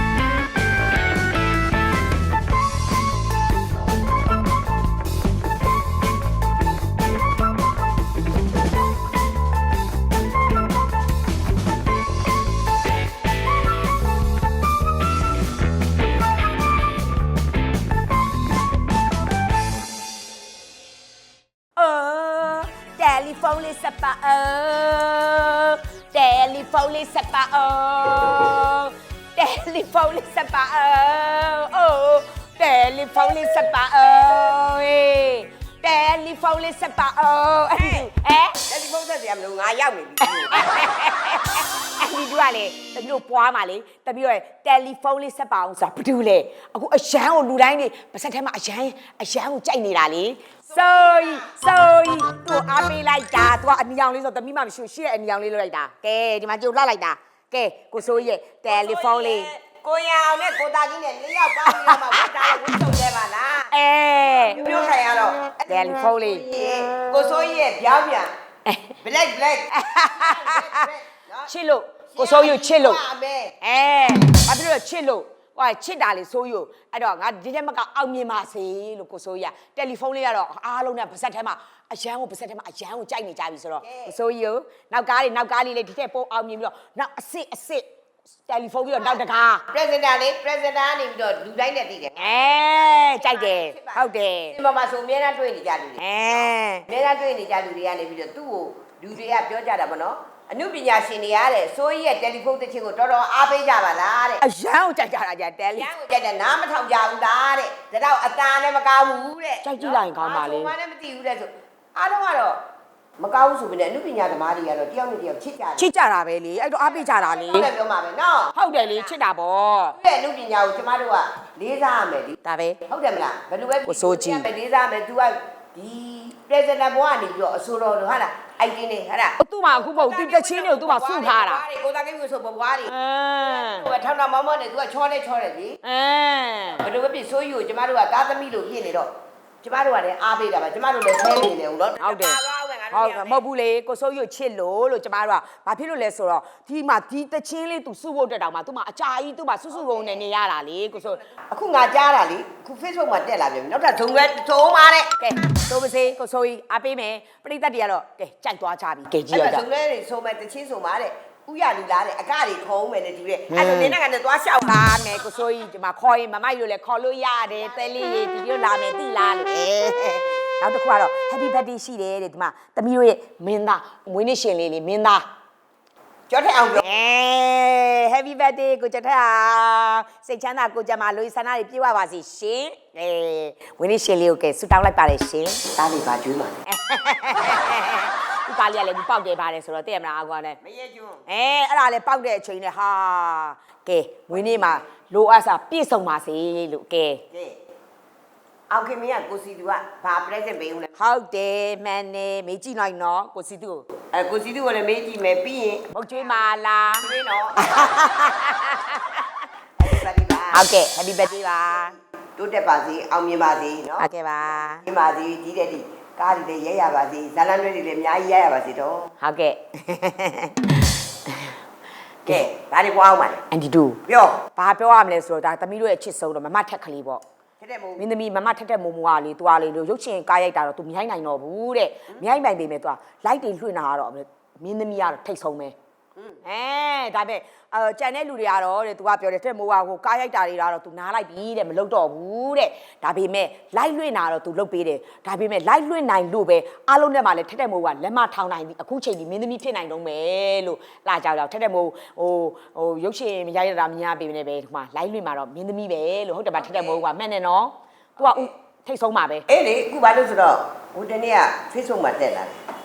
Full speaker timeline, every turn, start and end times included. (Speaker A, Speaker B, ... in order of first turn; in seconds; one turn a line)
Speaker A: 21.8-38.6
Speaker B: 38.7-40.7
Speaker A: 40.2-59.5
Speaker B: 50.7-51.5
Speaker B: 58.0-68.3
Speaker A: 61.7-62.5
Speaker A: 63.7-64.6
Speaker A: 65.7-66.4
Speaker A: 68.7-69.0
Speaker B: 69.0-71.5
Speaker A: 69.7-70.9
Speaker A: 71.5-73.0
Speaker B: 72.1-73.5
Speaker A: 73.6-87.9
Speaker B: 83.8-84.1
Speaker A: 88.5-89.6
Speaker B: 88.9-104.4
Speaker A: 92.2-94.5
Speaker A: 96.0-96.9
Speaker A: 104.4-105.9
Speaker B: 105.8-112.6
Speaker A: 109.6-110.7
Speaker B: 113.2-115.9
Speaker A: 115.8-117.7
Speaker B: 116.8-119.1
Speaker A: 118.5-120.0
Speaker B: 120.0-135.8
Speaker A: 122.4-122.8
Speaker A: 123.9-124.5
Speaker A: 129.4-131.6
Speaker A: 132.9-133.9
Speaker A: 135.8-136.9
Speaker B: 136.8-139.1
Speaker B: 139.6-143.4
Speaker A: 142.0-151.2
Speaker B: 149.7-150.3
Speaker B: 151.0-155.1
Speaker A: 155.2-159.6
Speaker B: 159.3-165.1
Speaker A: 163.5-163.9
Speaker A: 164.7-175.2
Speaker B: 167.5-168.1
Speaker B: 176.3-176.8
Speaker A: 176.8-185.7
Speaker B: 185.8-186.6
Speaker A: 186.7-190.6
Speaker B: 190.6-191.2
Speaker A: 191.3-197.2
Speaker B: 194.3-194.8
Speaker B: 197.3-197.6
Speaker B: 198.7-200.9
Speaker A: 201.0-203.9
Speaker B: 204.1-207.7
Speaker A: 205.9-207.1
Speaker A: 207.6-209.3
Speaker B: 209.8-210.7
Speaker A: 210.5-211.9
Speaker B: 212.4-214.1
Speaker A: 214.0-214.8
Speaker B: 214.7-219.1
Speaker A: 219.2-221.5
Speaker B: 222.2-223.4
Speaker A: 223.5-224.0
Speaker B: 224.1-224.4
Speaker A: 224.6-227.2
Speaker B: 227.6-228.1
Speaker A: 228.0-235.8
Speaker B: 236.2-236.4
Speaker A: 236.4-259.4
Speaker B: 256.6-257.0
Speaker B: 258.2-258.5
Speaker B: 259.5-262.6